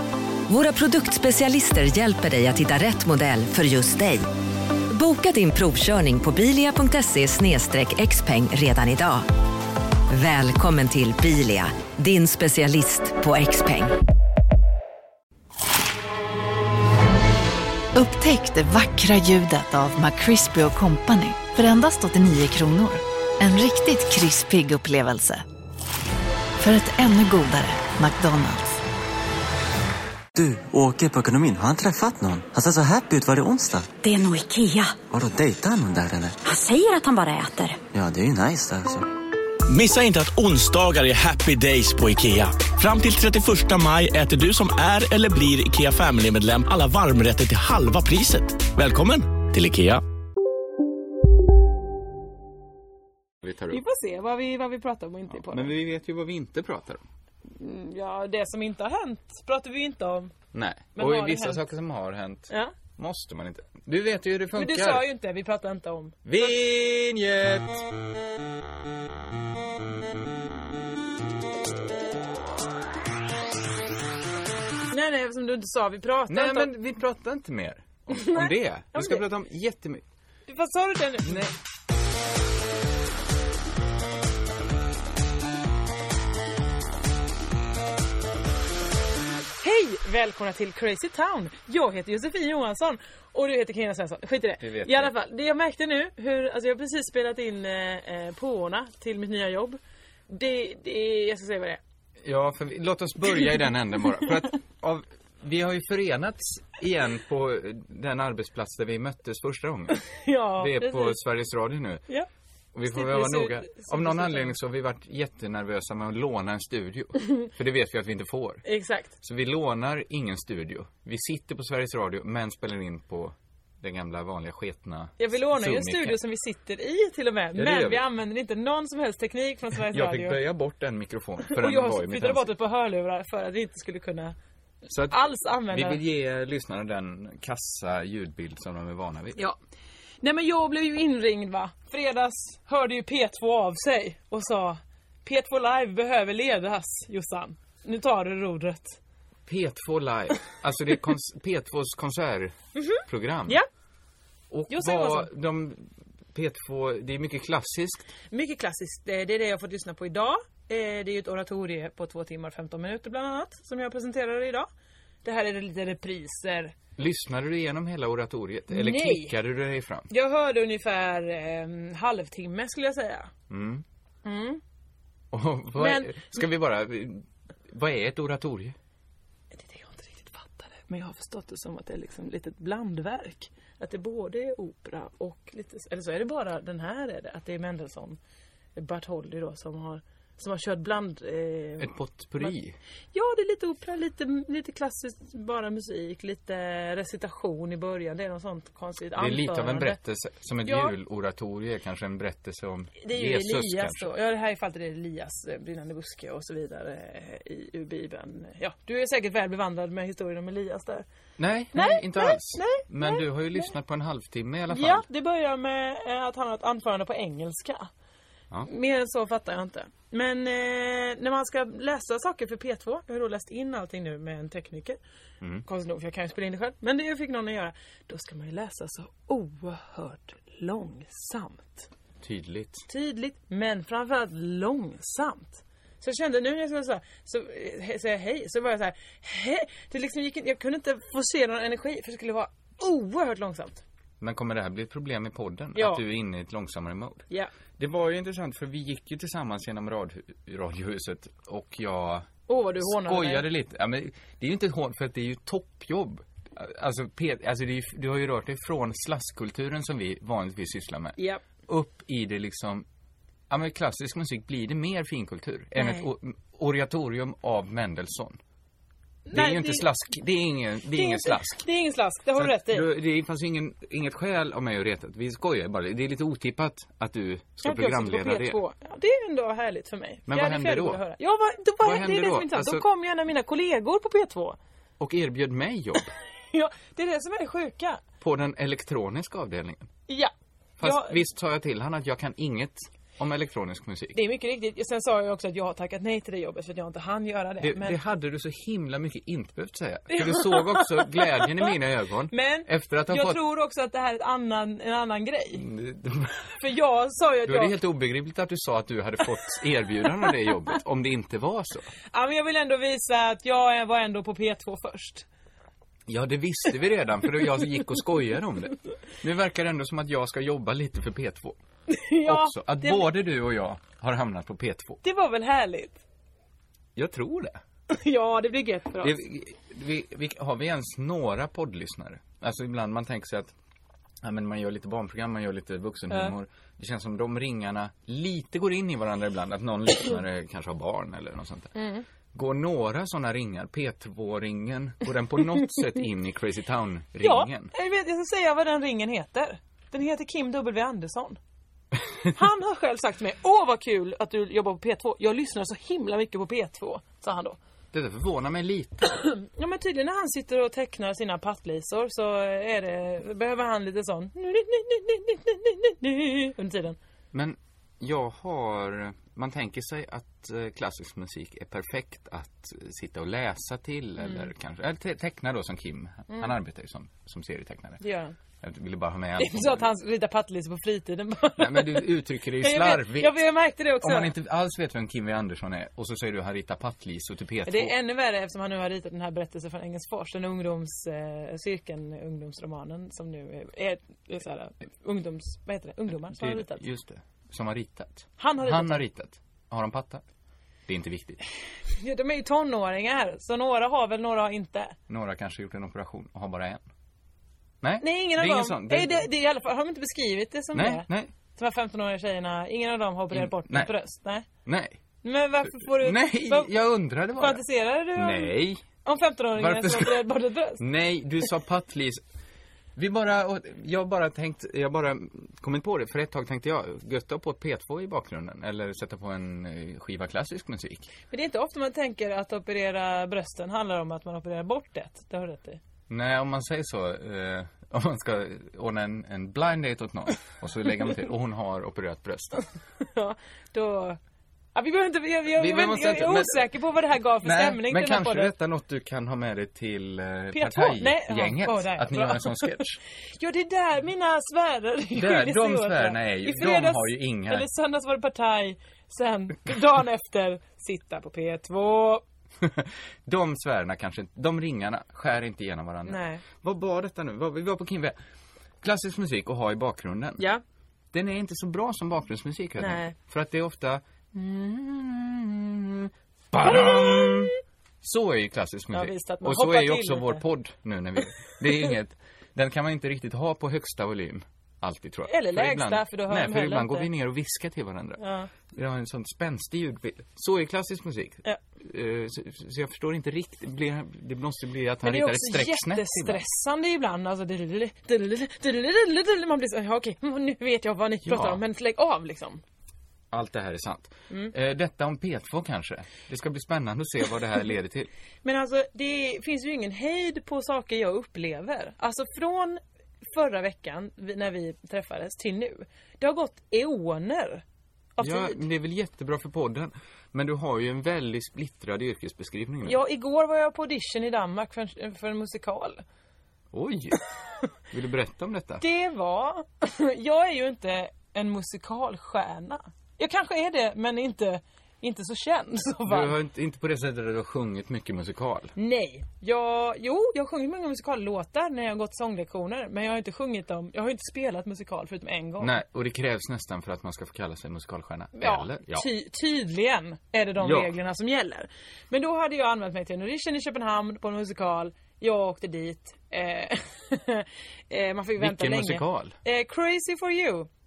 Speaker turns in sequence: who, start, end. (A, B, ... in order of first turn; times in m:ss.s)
0:00.5-0:04.2 A
0:04.9-0:09.3 A
0:10.1-0:14.0 A
0:17.9-0:25.4 B
0:26.6-0:28.8 B
0:30.4-0:33.9 C
0:34.0-0:35.0 D
0:35.1-0:36.4 C
0:36.4-0:37.8 D
0:37.9-0:39.1 C
0:39.7-0:50.0 E
0:53.4-0:53.8 F
0:53.7-0:55.8 G
0:55.3-0:57.0 F
0:57.5-1:00.3 G
1:00.5-1:05.1 F
1:01.0-1:01.6 G
1:02.5-1:02.7 G
1:04.6-1:06.6 G
1:06.3-1:07.9 F
1:14.9-1:16.7 G
1:16.3-1:20.0 F
1:18.1-1:19.2 G
1:20.5-1:21.5 G
1:21.2-1:21.5 F
1:29.6-1:41.8 G
1:34.6-1:35.1 F
1:42.2-1:50.0 F
1:49.9-1:51.2 G
1:50.6-1:52.0 F
1:52.7-1:58.6 F
1:52.9-1:54.6 G
1:58.6-1:59.1 G
1:59.2-2:06.2 F
2:05.2-2:10.4 G
2:07.6-2:08.0 F
2:09.9-2:12.5 F
2:11.5-2:14.4 G
2:14.9-2:19.4 F
2:15.1-2:16.0 G
2:20.2-2:29.0 G
2:29.5-2:33.6 F
2:32.8-2:33.7 G
2:34.5-2:38.1 F
2:34.7-2:35.3 G
2:38.3-2:44.7 G
2:45.2-2:46.7 G
2:47.0-2:50.1 F
2:48.7-2:49.3 G
2:50.1-2:53.3 G
2:53.5-2:53.8 F
2:54.2-2:54.6 G
2:55.3-2:58.8 F
2:55.8-2:56.4 G
2:59.5-3:08.2 G
3:08.8-3:12.5 G
3:11.8-3:12.8 F
3:13.1-3:20.0 G
3:19.2-3:24.1 F
3:20.6-3:21.0 G
3:23.0-3:31.1 G
3:31.4-3:35.1 F
3:31.7-3:33.7 G
3:34.7-3:37.9 G
3:38.7-3:45.0 G
3:45.6-3:51.9 G
3:52.2-3:52.9 F
3:52.9-4:03.8 G
4:04.2-4:07.3 F
4:05.8-4:06.0 G
4:07.8-4:22.9 F
4:12.5-4:13.5 G
4:21.2-4:21.4 G
4:23.5-4:28.4 F
4:25.8-4:26.1 G
4:29.3-4:29.9 G
4:29.3-4:31.6 F
4:30.9-4:32.9 G
4:32.4-4:38.6 F
4:37.6-4:44.6 G
4:40.3-4:41.0 F
4:41.8-4:42.8 F
4:45.0-4:46.1 F
4:46.5-4:48.0 G
4:48.2-4:49.9 F
4:50.1-4:51.2 G
4:50.8-4:54.2 F
4:54.1-4:58.0 G
4:57.6-5:03.4 F
5:00.1-5:01.7 G
5:02.3-5:05.6 G
5:05.6-5:06.5 F
5:06.6-5:07.8 G
5:07.5-5:11.9 F
5:12.1-5:15.3 G
5:16.1-5:21.6 F
5:21.9-5:23.1 G
5:22.2-5:25.0 F
5:25.0-5:26.0 G
5:27.0-5:27.6 F
5:27.9-5:29.2 G
5:29.0-5:33.6 F
5:34.2-5:41.8 F
5:41.8-5:42.0 G
5:42.3-5:47.7 F
5:47.2-5:51.4 G
5:52.3-5:57.6 G
5:57.9-5:59.1 F
5:59.3-6:07.0 G
6:07.3-6:18.0 F
6:16.3-6:16.6 G
6:18.0-6:18.4 G
6:18.6-6:19.9 F
6:19.4-6:24.3 G
6:21.6-6:23.4 F
6:24.0-6:27.9 F
6:27.7-6:36.8 G
6:36.3-6:40.2 F
6:38.4-6:39.0 G
6:40.9-6:41.4 F
6:41.9-6:45.0 G
6:45.1-6:46.8 F
6:47.8-6:49.3 F
6:48.0-6:54.5 G
6:50.7-6:51.3 F
6:53.3-6:53.9 F
6:54.6-6:55.0 F
6:55.2-6:56.7 G
6:55.7-6:57.6 F
6:57.4-7:00.8 G
6:58.2-6:58.8 F
6:59.6-7:00.3 F
7:00.8-7:02.2 F
7:03.0-7:11.1 F
7:11.3-7:15.8 G
7:16.1-7:22.6 F
7:23.0-7:24.2 G
7:24.8-7:28.5 G
7:25.5-7:26.7 F
7:27.4-7:33.0 F
7:30.5-7:32.8 G
7:33.4-7:42.2 G
7:35.2-7:37.7 F
7:42.6-7:48.2 F
7:46.1-7:46.4 G
7:48.8-7:50.5 F
7:51.1-8:16.4 F
7:52.8-7:53.2 G
7:56.7-7:57.5 G
7:58.9-8:00.4 G
8:05.3-8:07.1 G
8:08.2-8:08.5 G
8:15.0-8:22.6 G
8:21.3-8:21.6 F
8:23.3-8:28.1 F
8:28.4-8:32.8 G
8:33.3-8:37.6 G
8:38.2-8:38.6 G
8:38.2-8:43.0 F
8:42.9-8:46.0 G
8:46.7-8:47.2 F
8:47.9-8:48.8 F
8:48.8-8:56.3 G
8:56.1-8:58.7 F
8:58.8-9:05.7 G
9:05.6-9:09.1 F
9:08.4-9:20.7 G
9:10.6-9:10.9 F
9:18.4-9:19.4 F